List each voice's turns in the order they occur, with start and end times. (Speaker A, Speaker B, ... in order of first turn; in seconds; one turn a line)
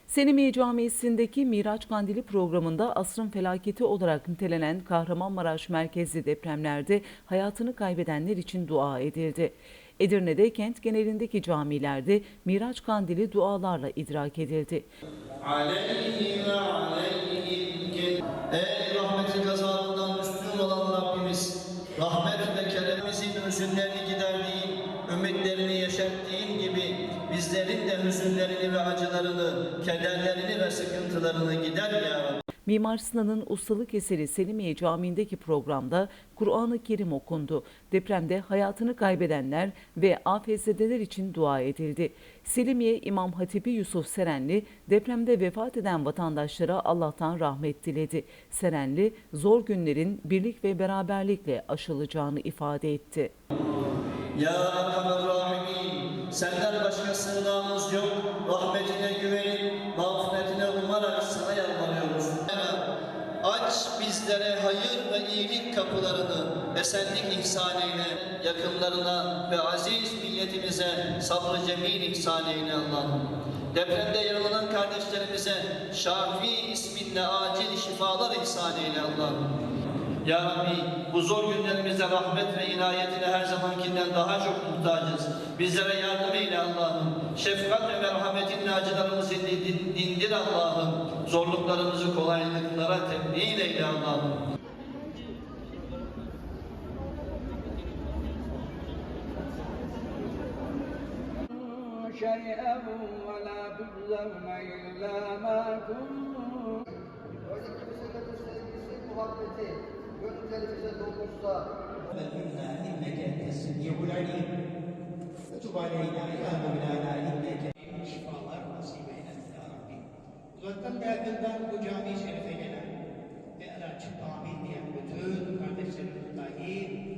Speaker A: 0.1-14.8
Speaker B: 15.4-32.4
Speaker A: 32.6-53.3
Speaker B: 54.3-62.8
Speaker B: 63.4-79.5
Speaker B: 80.2-94.4
Speaker C: 101.6-106.8
Speaker D: 107.5-111.5
Speaker E: 112.0-114.5
Speaker E: 115.5-122.9
Speaker E: 123.6-126.9